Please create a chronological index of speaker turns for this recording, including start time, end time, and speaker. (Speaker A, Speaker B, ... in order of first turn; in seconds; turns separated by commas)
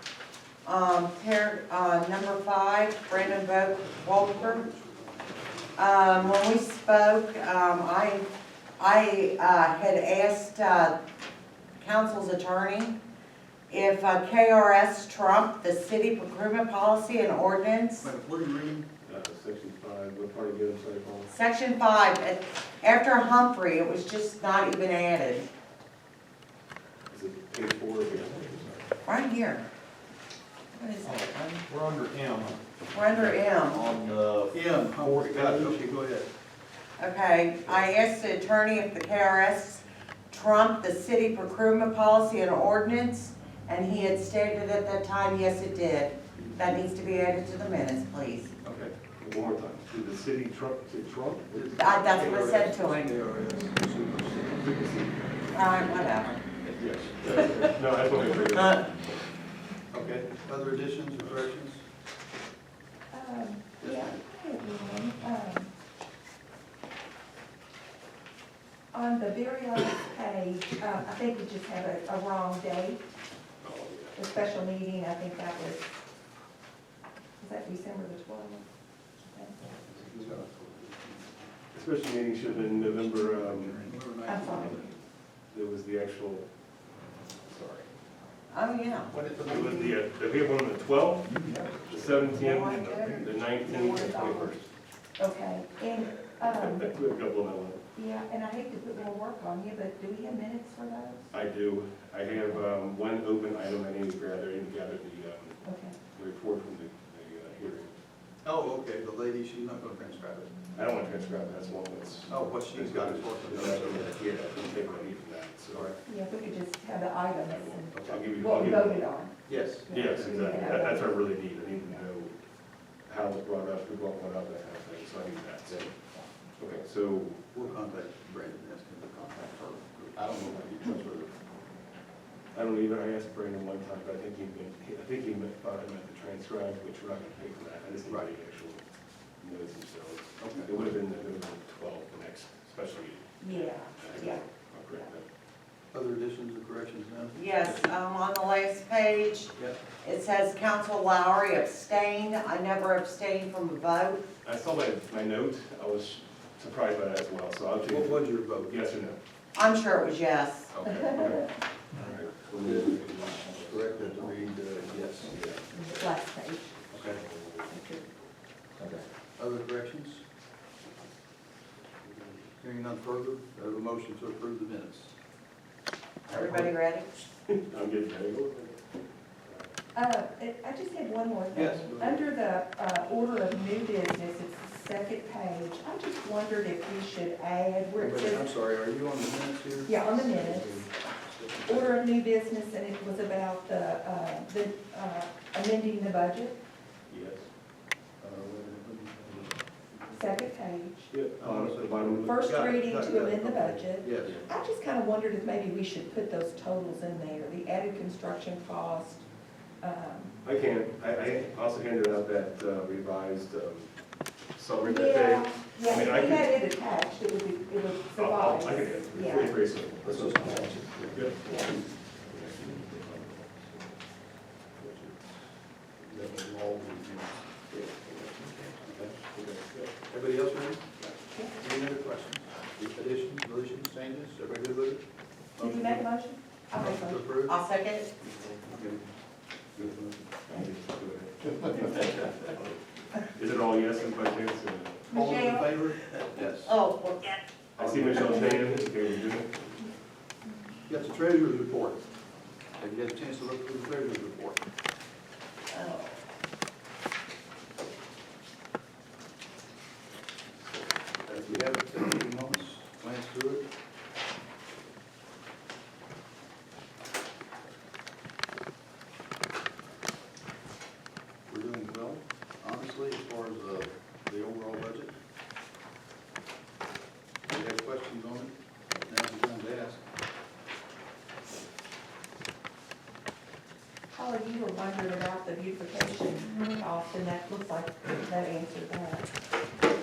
Speaker A: 0.6-4.7, Speaker B: 4.5-5.1, Speaker A: 5.8-10.9, Speaker A: 11.8-13.0, Speaker A: 13.7-18.1, Speaker B: 18.0-18.9, Speaker C: 19.0-21.3, Speaker A: 21.3-25.5, Speaker C: 27.1-28.9, Speaker A: 29.0-29.7, Speaker A: 30.7-31.7, Speaker D: 31.7-32.6, Speaker A: 32.9-33.9, Speaker D: 33.1-35.7, Speaker B: 34.5-36.3, Speaker A: 37.0-48.5, Speaker C: 48.6-52.0, Speaker B: 51.5-54.8, Speaker A: 51.7-53.1, Speaker C: 54.6-55.6, Speaker A: 55.5-56.4, Speaker B: 56.6-57.7, Speaker C: 56.8-59.2, Speaker A: 58.5-58.8, Speaker B: 59.9-61.8, Speaker E: 63.1-65.7, Speaker E: 68.9-73.0, Speaker C: 73.6-74.2, Speaker E: 74.1-75.9, Speaker E: 77.4-78.7, Speaker E: 79.3-79.6, Speaker B: 79.9-81.2, Speaker C: 81.7-83.9, Speaker B: 83.2-84.9, Speaker E: 84.2-84.8, Speaker C: 85.5-86.5, Speaker C: 87.5-87.9, Speaker A: 88.5-89.1, Speaker B: 89.1-89.9, Speaker C: 89.4-94.7, Speaker D: 91.2-92.4, Speaker A: 92.3-94.5, Speaker E: 94.0-94.4, Speaker E: 95.2-96.9, Speaker C: 96.4-97.8, Speaker E: 97.9-101.3, Speaker C: 101.3-105.6, Speaker E: 105.6-106.0, Speaker C: 106.1-107.9, Speaker B: 108.4-110.5, Speaker C: 110.7-115.9, Speaker B: 112.3-114.2, Speaker B: 115.7-116.0, Speaker E: 116.0-122.0, Speaker C: 117.4-119.1, Speaker B: 117.9-118.2, Speaker B: 119.5-120.3, Speaker C: 119.9-122.4, Speaker C: 123.0-125.9, Speaker C: 126.5-127.6, Speaker B: 127.5-131.3, Speaker C: 130.2-130.5, Speaker C: 132.5-138.8, Speaker C: 139.4-145.2, Speaker B: 140.4-140.7, Speaker E: 143.4-144.4, Speaker B: 145.9-147.8, Speaker A: 147.3-154.2, Speaker C: 154.4-159.2, Speaker B: 157.9-158.7, Speaker A: 159.5-160.7, Speaker B: 160.7-161.3, Speaker C: 160.8-166.0, Speaker E: 160.9-161.4, Speaker B: 162.5-165.5, Speaker E: 165.7-166.8, Speaker C: 166.9-167.7, Speaker B: 166.9-167.2, Speaker E: 167.7-168.1, Speaker E: 168.8-169.0, Speaker B: 169.3-170.2, Speaker C: 172.0-172.4, Speaker B: 172.6-175.1, Speaker A: 176.2-177.1, Speaker C: 177.5-178.9, Speaker C: 179.4-179.7, Speaker E: 179.9-188.4, Speaker B: 181.5-182.3, Speaker B: 188.0-191.9, Speaker E: 189.8-190.9, Speaker E: 191.7-196.6, Speaker C: 197.1-197.5, Speaker B: 198.2-199.6, Speaker E: 200.1-201.1, Speaker C: 201.1-202.7, Speaker B: 201.4-204.4, Speaker E: 202.2-209.2, Speaker E: 209.8-210.4, Speaker C: 210.4-213.9, Speaker C: 214.5-216.6, Speaker E: 214.8-219.6, Speaker C: 218.2-223.9, Speaker B: 220.0-221.8, Speaker E: 221.4-221.8, Speaker C: 224.8-225.2, Speaker B: 226.1-229.2, Speaker C: 227.7-228.0, Speaker C: 228.8-229.9, Speaker B: 230.1-230.9, Speaker E: 231.3-231.6, Speaker B: 231.6-235.0, Speaker B: 235.6-236.1, Speaker E: 235.6-237.2, Speaker B: 236.8-237.5, Speaker A: 237.4-238.1, Speaker B: 238.6-239.0, Speaker B: 239.8-240.2, Speaker C: 240.4-242.6, Speaker C: 243.3-245.1, Speaker E: 245.1-245.8, Speaker B: 245.1-246.8, Speaker A: 246.2-247.4, Speaker C: 247.8-249.6, Speaker B: 247.8-248.8, Speaker B: 250.9-252.0, Speaker B: 252.8-254.6, Speaker A: 255.7-256.1, Speaker B: 261.2-263.6, Speaker B: 271.4-275.1, Speaker B: 277.4-280.0, Speaker E: 284.1-289.3